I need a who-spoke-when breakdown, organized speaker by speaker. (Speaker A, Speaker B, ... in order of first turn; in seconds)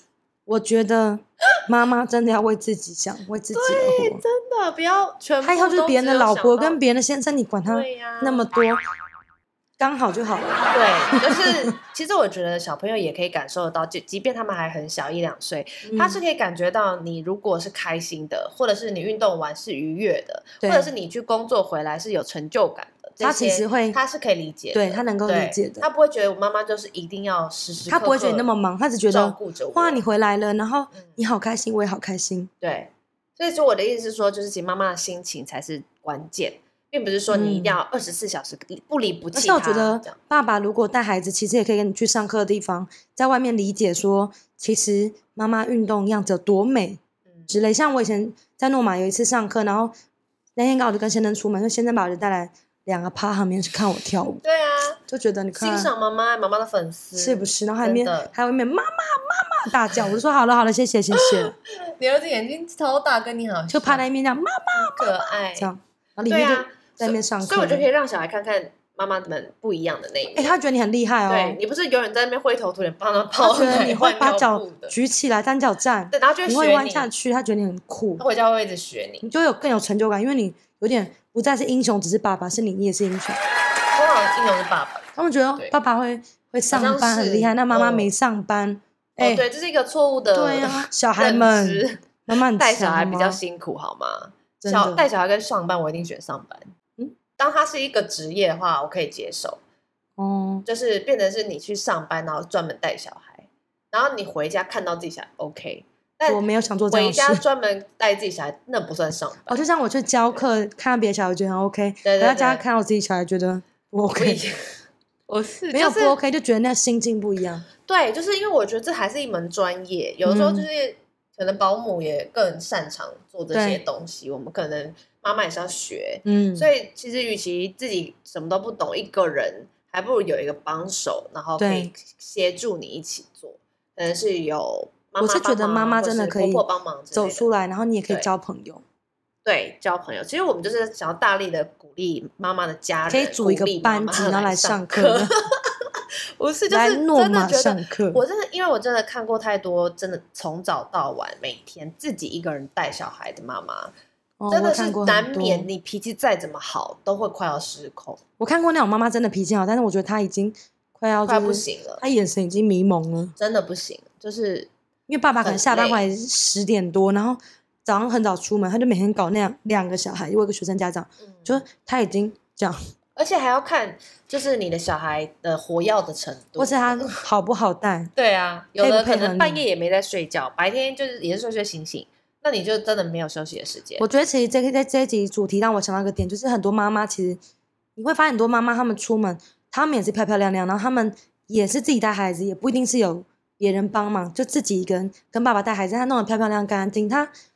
Speaker A: 0.5-4.2, 5.4-8.8, 9.8-11.7, 15.8-16.2, 20.6-20.9, 23.2-24.0, 24.7-25.9, 27.9-32.5, 37.3-37.8, 39.3-49.9, 50.6-54.4, 55.1-55.9, 57.1-61.5, 63.7-67.9, 70.3-71.6, 73.4-78.2, 79.2-83.4, 85.2-89.5, 90.3-93.4, 94.6-95.1, 100.2-100.7, 106.3-107.4, 109.5-114.4, 115.7-117.7, 120.2-120.7, 123.5-123.8, 126.2-126.7, 131.6-131.9, 135.2-138.8, 143.1-145.3, 146.7-148.2, 154.4-155.7, 158.4-163.3, 165.1-172.8, 176.6-178.1, 178.8-179.6, 184.0-187.4, 188.0-197.3
Speaker B: 3.5-6.8, 7.7-8.5, 10.7-28.5, 29.1-30.0, 32.6-40.2, 54.4-55.0, 55.5-58.3, 61.1-64.0, 64.8-65.7, 66.3-70.5, 71.3-75.0, 76.1-77.1, 78.2-79.3, 84.0-85.7, 86.7-88.1, 89.2-96.7, 97.4-99.6, 100.7-109.6, 112.0-112.6, 114.1-114.7, 115.3-116.2, 117.8-137.5, 139.4-145.4, 146.4-153.9, 154.5-158.2, 161.2-162.0, 163.4-164.7, 165.4-166.0, 171.2-171.5, 173.2-177.2, 178.2-184.1